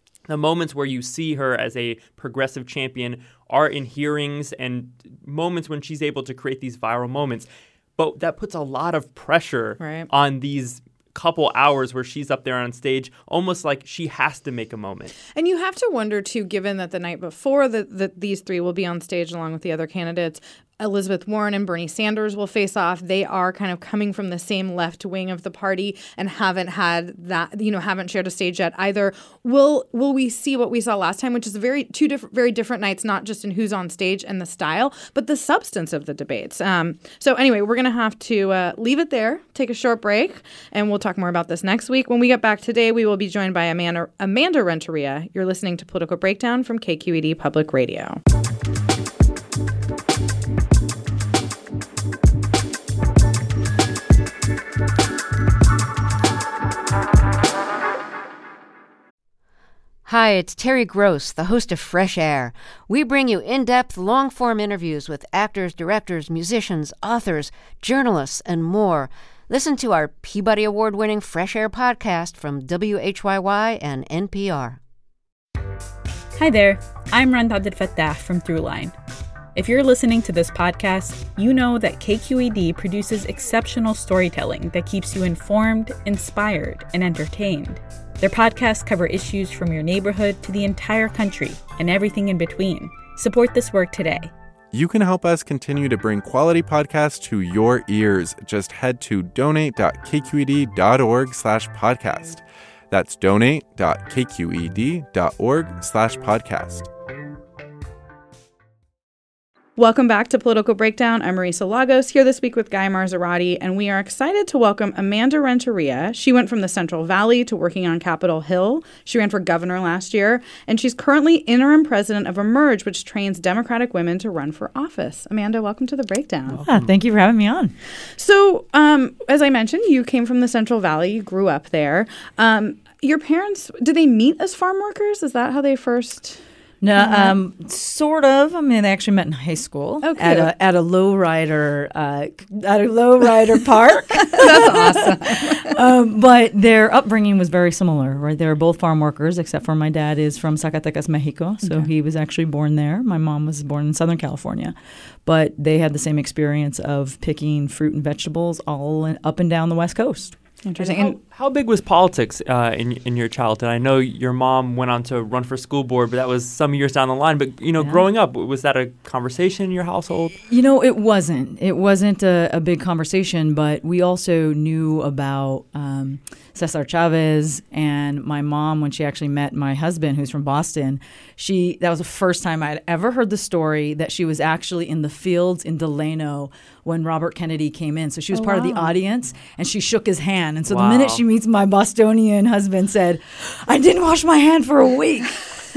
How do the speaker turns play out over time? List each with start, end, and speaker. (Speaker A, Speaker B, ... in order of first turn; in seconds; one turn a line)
Speaker A: 0.3-15.1
Speaker B: 9.8-10.1
Speaker B: 15.3-48.2
Speaker C: 60.0-74.8
Speaker D: 76.3-79.0
Speaker D: 79.5-94.3
Speaker E: 94.7-106.9
Speaker B: 109.8-126.6
Speaker F: 126.6-127.7
Speaker B: 128.1-136.4
Speaker F: 136.8-154.7
Speaker B: 137.0-137.3
Speaker B: 140.0-140.5
Speaker B: 144.3-145.7
Speaker B: 151.6-151.9
Speaker F: 155.2-160.3
Speaker B: 160.6-161.2
Speaker A: 160.8-170.4
Speaker F: 167.8-168.0
Speaker F: 170.4-195.4
Speaker B: 188.3-188.9
Speaker A: 190.7-191.2